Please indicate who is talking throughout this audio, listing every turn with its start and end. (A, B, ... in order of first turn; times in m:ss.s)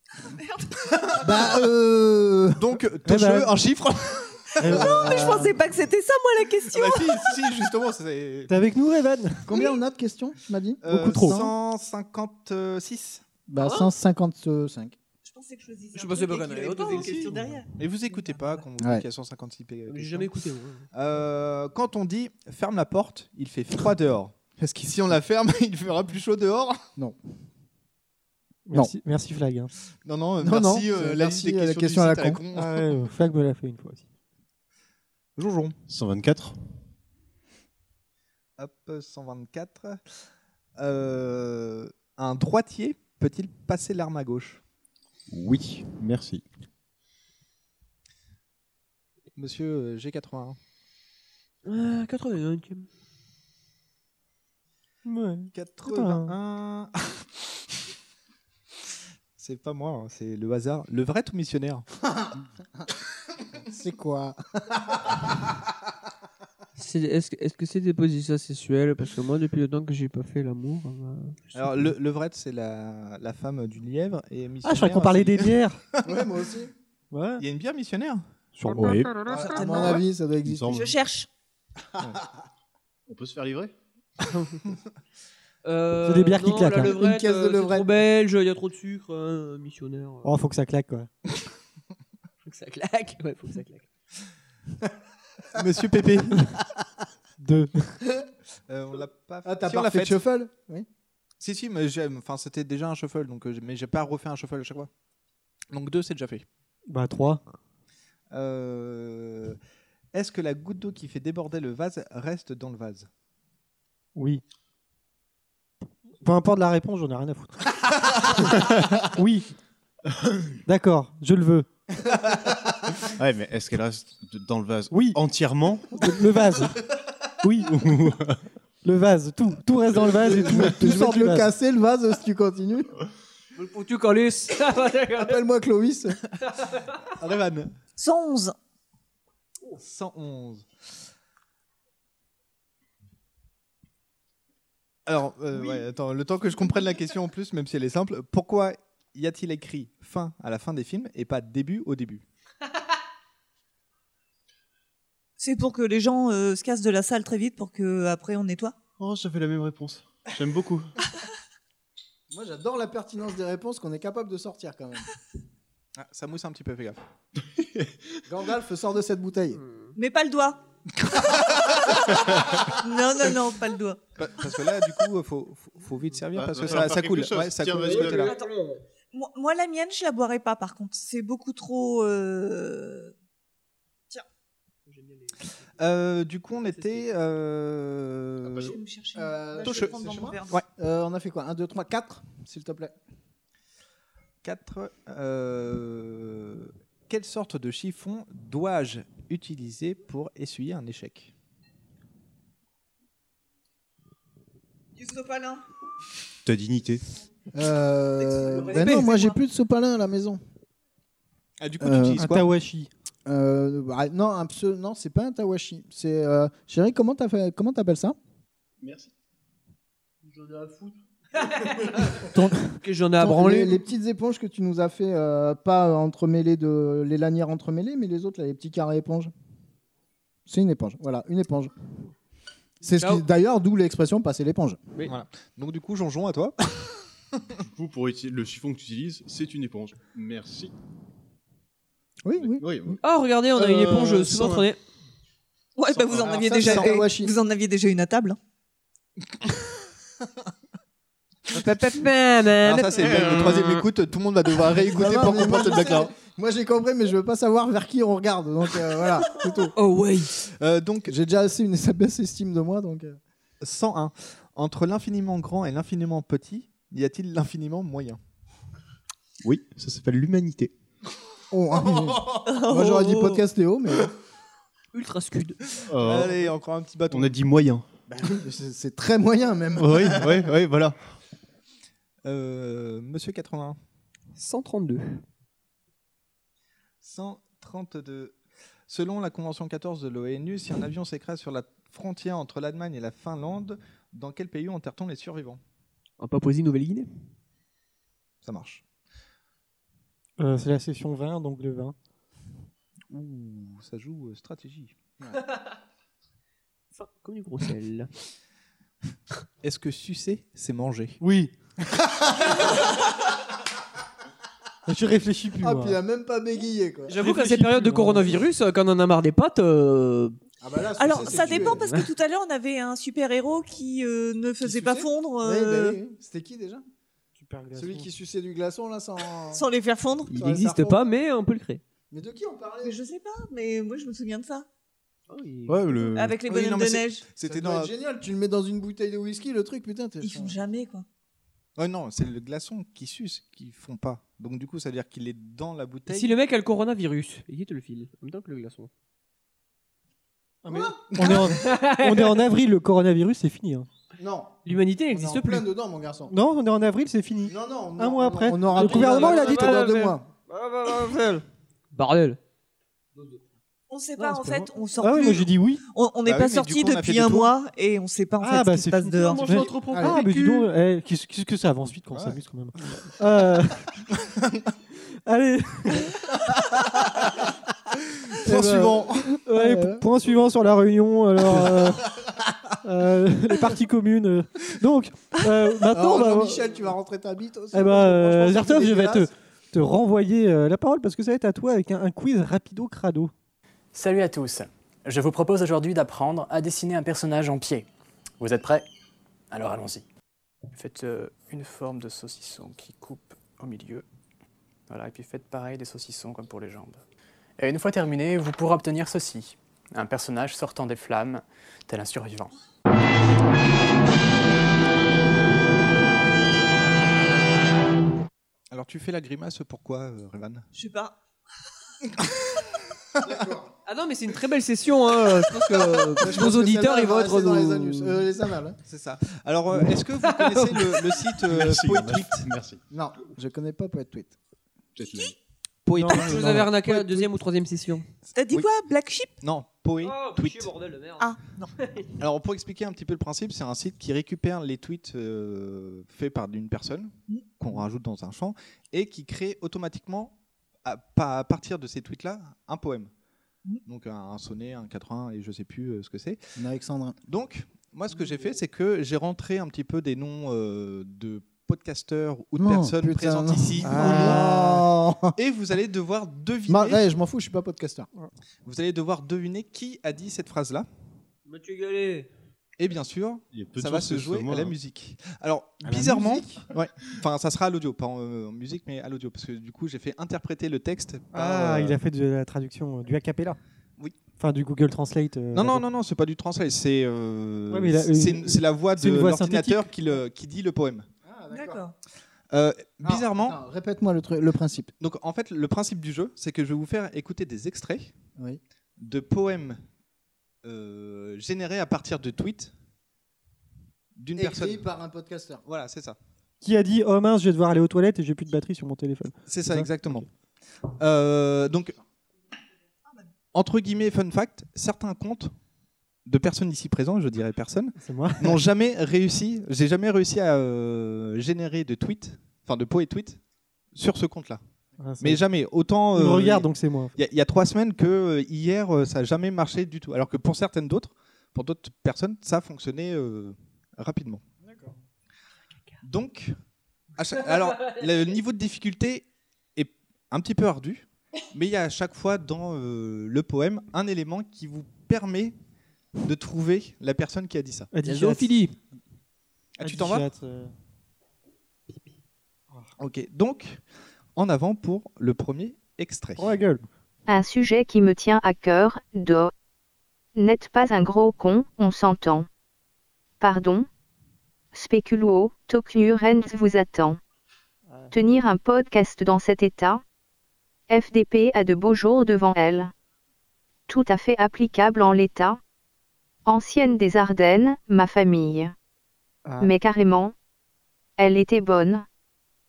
0:00.2-0:01.2 A
0:01.2-0:02.7 B
0:02.6-0:04.8 C
0:03.1-0:03.5 D
0:04.6-0:05.5 D
0:04.7-0:05.5 B
0:04.7-0:07.4 A
0:06.7-0:08.5 C
0:08.5-0:09.5 D
0:09.5-0:11.5 B
0:09.5-0:09.8 A
0:10.8-0:13.2 C
0:10.9-0:11.4 D
0:13.5-0:15.0 B
0:15.2-0:18.6 A
0:15.9-0:17.4 E
0:16.9-0:17.2 C
0:17.8-0:20.3 C
0:18.8-0:19.0 B
0:19.9-0:20.9 E
0:20.9-0:26.8 C
0:28.7-0:29.7 D
0:30.0-0:32.9 C
0:30.4-0:32.4 B
0:32.5-0:34.0 D
0:35.4-0:35.8 C
0:35.9-0:36.6 F
0:38.6-0:40.0 C
0:40.8-0:44.6 C
0:45.3-0:46.4 F
0:49.4-0:50.6 C
0:51.7-0:52.9 E
0:55.0-0:56.3 D
0:55.5-0:57.5 C
0:59.4-1:01.9 C
1:03.6-1:05.2 B
1:06.8-1:11.5 E
1:11.5-1:16.1 C
1:14.6-1:15.8 D
1:16.0-1:16.7 B
1:17.1-1:17.4 D
1:17.4-1:18.2 C
1:18.6-1:19.0 D
1:18.7-1:19.5 F
1:19.3-1:20.8 B
1:19.4-1:20.0 A
1:20.4-1:20.9 F
1:20.7-1:21.3 A
1:23.1-1:23.7 F
1:25.6-1:30.3 E
1:26.0-1:26.9 D
1:26.8-1:27.9 B
1:30.2-1:31.1 D
1:32.4-1:33.9 E
1:35.5-1:36.5 C
1:37.4-1:38.0 D
1:38.7-1:40.2 C
1:39.4-1:40.9 B
1:41.4-1:44.9 C
1:45.7-1:46.5 C
1:46.9-1:47.4 D
1:48.3-1:49.6 C
1:50.1-1:53.1 C
1:54.2-1:54.4 D
1:56.2-1:57.6 D
1:58.2-1:58.5 D
1:59.0-1:59.5 D
2:00.7-2:01.7 D
2:03.1-2:06.0 F
2:04.9-2:05.2 D
2:06.0-2:06.8 D
2:07.4-2:07.7 D
2:07.7-2:08.4 F
2:08.8-2:11.5 D
2:10.0-2:12.9 B
2:13.6-2:15.4 E
2:15.2-2:16.2 B
2:17.2-2:17.7 C
2:18.0-2:18.6 A
2:19.8-2:20.7 C
2:25.1-2:32.2 C
2:35.4-2:38.8 A
2:39.0-2:40.9 F
2:42.3-2:45.1 B
2:46.0-2:47.0 C
2:47.6-2:47.9 F
2:48.3-2:49.6 B
2:49.6-2:49.9 E
2:50.0-2:50.6 A
2:52.8-2:54.0 A
2:54.2-2:58.3 C
2:56.3-2:58.3 F
2:57.8-2:58.8 E
2:58.2-2:58.5 A
2:59.1-3:03.1 A
3:04.9-3:05.6 E
3:05.8-3:08.8 C
3:06.5-3:07.1 E
3:08.6-3:10.6 A
3:09.2-3:13.0 B
3:09.6-3:10.0 C
3:14.4-3:21.3 C
3:25.0-3:25.6 A
3:26.4-3:27.0 F
3:27.5-3:30.4 B
3:28.2-3:29.4 A
3:28.7-3:29.2 E
3:31.6-3:32.5 C
3:31.8-3:32.2 B
3:32.2-3:32.9 D
3:33.3-3:38.2 B
3:38.8-3:39.1 F
3:40.3-3:42.2 E
3:42.3-3:42.6 D
3:42.7-3:43.8 E
3:43.2-3:49.3 B
3:50.5-3:51.7 B
3:52.8-3:54.8 B
3:53.0-3:53.2 E
3:55.1-3:57.0 C
3:57.6-4:00.7 F
4:02.2-4:03.0 B
4:02.4-4:03.0 F
4:03.0-4:04.8 E
4:03.6-4:04.6 F
4:05.8-4:08.4 A
4:06.1-4:07.3 B
4:06.5-4:07.0 C
4:11.5-4:13.6 E
4:12.6-4:16.1 C
4:13.0-4:13.8 F
4:14.8-4:19.7 B
4:19.8-4:20.3 E
4:20.4-4:21.1 C
4:21.1-4:23.2 B
4:23.6-4:28.2 C
4:29.4-4:30.7 F
4:31.5-4:34.1 B
4:32.5-4:33.4 A
4:34.9-4:35.6 E
4:35.9-4:36.5 F
4:36.0-4:37.4 C
4:37.1-4:37.9 F
4:38.1-4:40.4 B
4:39.8-4:41.0 F
4:42.2-4:43.8 C
4:44.4-4:45.2 E
4:47.0-4:48.4 C
4:48.9-4:55.6 C
4:56.2-4:57.1 E
4:58.4-4:58.8 C
5:00.4-5:02.0 D
5:03.1-5:05.0 C
5:06.9-5:08.1 E
5:09.6-5:11.2 C
5:11.2-5:11.5 D
5:14.9-5:16.0 D
5:15.6-5:17.2 B
5:17.1-5:20.4 E
5:17.2-5:18.3 D
5:20.6-5:21.9 B
5:21.0-5:26.0 A
5:21.7-5:22.1 E
5:24.6-5:26.8 B
5:27.4-5:28.1 D
5:27.8-5:29.6 B
5:29.5-5:30.3 A
5:30.3-5:31.8 E
5:30.3-5:31.0 B
5:32.1-5:33.0 B
5:32.8-5:34.7 A
5:35.3-5:36.2 E
5:35.7-5:36.4 F
5:36.1-5:37.2 A
5:36.5-5:37.9 C
5:37.4-5:40.6 B
5:40.2-5:41.1 A
5:41.8-5:46.3 C
5:46.1-5:48.9 E
5:50.7-5:53.9 D
5:50.7-5:51.5 B
5:51.2-5:52.4 E
5:54.2-5:54.6 B
5:54.6-5:55.7 E
5:55.1-5:56.3 B
5:56.3-5:59.8 D
5:57.5-6:00.3 B
5:58.7-6:02.4 E
6:03.9-6:09.5 A
6:04.2-6:04.7 E
6:05.0-6:05.8 D
6:06.3-6:07.5 C
6:08.4-6:13.9 D
6:09.2-6:10.7 E
6:09.8-6:10.2 B
6:12.1-6:13.0 C
6:14.2-6:14.7 C
6:15.3-6:16.2 D
6:18.3-6:19.4 C
6:18.5-6:18.9 D
6:18.5-6:20.0 B
6:19.4-6:22.1 D
6:22.8-6:26.7 D
6:25.9-6:29.3 B
6:27.7-6:33.3 D
6:33.9-6:37.9 G
6:38.4-6:38.9 G
6:39.5-6:40.0 G
6:40.7-6:44.1 G
6:44.9-6:47.0 G
6:47.6-6:52.5 G
6:58.7-7:00.7 C
7:00.7-7:01.2 A
7:02.2-7:02.5 C
7:03.2-7:03.7 B
7:03.9-7:08.3 E
7:05.7-7:08.8 B
7:08.9-7:12.5 C
7:10.2-7:11.4 E
7:11.5-7:12.8 F
7:12.9-7:14.4 B
7:15.0-7:15.4 F
7:15.8-7:16.7 C
7:16.0-7:16.5 D
7:16.1-7:18.1 E
7:18.4-7:19.3 A
7:19.4-7:20.7 C
7:20.0-7:22.1 E
7:21.2-7:21.7 A
7:22.2-7:33.1 C
7:33.9-7:36.4 C
7:36.6-7:37.2 B
7:37.3-7:44.6 C
7:42.6-7:45.4 B
7:43.8-7:44.7 D
7:45.4-7:47.1 C
7:46.7-7:48.1 B
7:48.6-7:50.9 C
7:51.5-7:52.3 E
7:52.8-8:02.0 C
7:53.5-7:54.8 F
7:55.9-7:56.6 B
8:01.3-8:03.6 D
8:04.4-8:05.8 D
8:05.5-8:11.1 C
8:07.7-8:09.9 D
8:11.2-8:11.8 B
8:11.5-8:11.9 A
8:12.5-8:13.6 C
8:13.0-8:14.9 B
8:15.0-8:18.1 C
8:19.0-8:19.8 C
8:20.6-8:22.7 C
8:24.2-8:24.8 C
8:24.4-8:25.6 B
8:25.6-8:26.2 C
8:26.6-8:30.2 D
8:29.5-8:30.3 C
8:31.0-8:32.0 C
8:33.5-8:35.5 C
8:36.3-8:43.4 C
8:38.0-8:38.6 D
8:43.9-8:44.6 C
8:45.0-8:45.4 D
8:45.2-8:54.4 C
8:46.1-8:47.1 D
8:54.6-8:55.0 B
8:56.0-8:56.6 C
8:57.2-9:05.6 C
9:06.2-9:07.9 C
9:07.9-9:08.5 D
9:08.0-9:08.8 E
9:09.8-9:10.3 C
9:09.8-9:10.7 D
9:13.0-9:13.8 C
9:14.4-9:16.6 C
9:16.4-9:16.9 D
9:17.3-9:19.5 H
9:20.4-9:22.5 H
9:23.4-9:23.9 H
9:24.7-9:27.2 H
9:27.9-9:28.2 D
9:28.1-9:30.0 H
9:30.9-9:32.9 H
9:33.9-9:35.6 H
9:36.5-9:38.7 H
9:39.5-9:39.7 D
9:39.6-9:40.3 H
9:41.2-9:42.0 H